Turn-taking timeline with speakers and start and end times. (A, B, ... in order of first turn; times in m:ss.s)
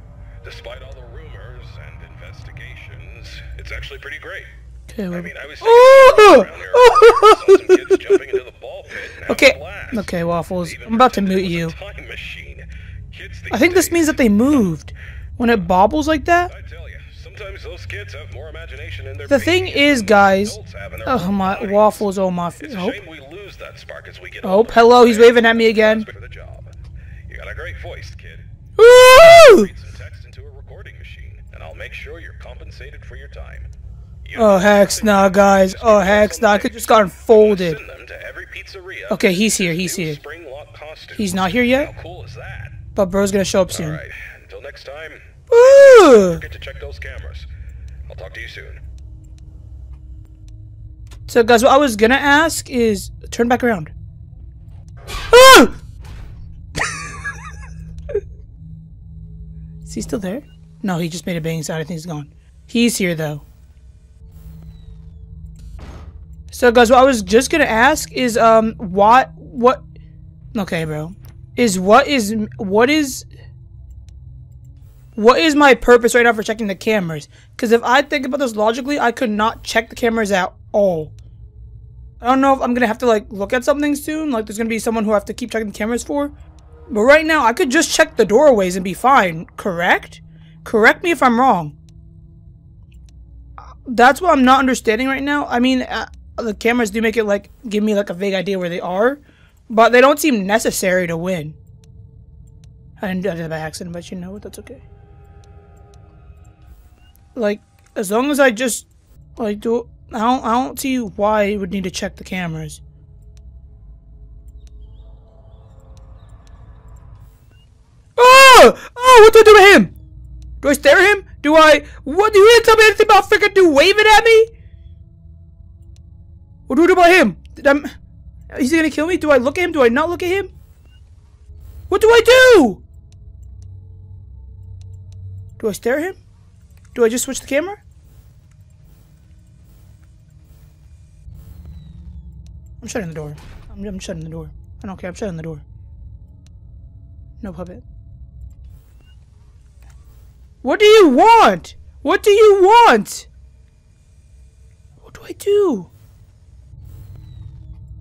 0:00.4-0:04.5 A
0:04.9-0:08.1 B
0:05.1-0:14.3 A
0:09.2-0:11.7 B
0:13.5-0:16.5 B
0:16.5-0:22.0 A
0:19.3-0:23.0 B
0:22.6-0:26.7 A
0:24.4-0:26.1 B
0:27.3-0:28.4 A
0:28.8-0:29.7 B
0:29.0-0:33.7 A
0:34.2-0:42.8 A
0:34.3-0:37.8 B
0:39.1-0:40.2 B
0:41.1-0:41.9 B
0:42.9-0:44.0 B
0:43.7-0:47.5 A
0:45.5-0:46.4 B
0:48.1-0:48.8 A
0:51.3-0:53.9 B
0:55.3-0:55.8 B
0:56.8-0:57.3 B
0:59.8-1:03.4 B
1:06.5-1:09.8 B
1:10.5-1:13.3 B
1:15.1-1:21.1 B
1:22.2-1:26.3 B
1:26.9-1:31.8 B
1:33.7-1:41.6 B
1:43.0-1:44.8 B
1:47.3-1:52.8 B
1:58.2-1:59.9 B
2:00.6-2:04.5 B
2:06.7-2:07.9 B
2:08.5-2:10.5 B
2:11.9-2:12.8 B
2:15.6-2:16.2 B
2:16.9-2:17.8 B
2:22.8-2:25.6 B
2:27.4-2:27.8 B
2:30.6-2:33.3 B
2:35.0-2:35.9 B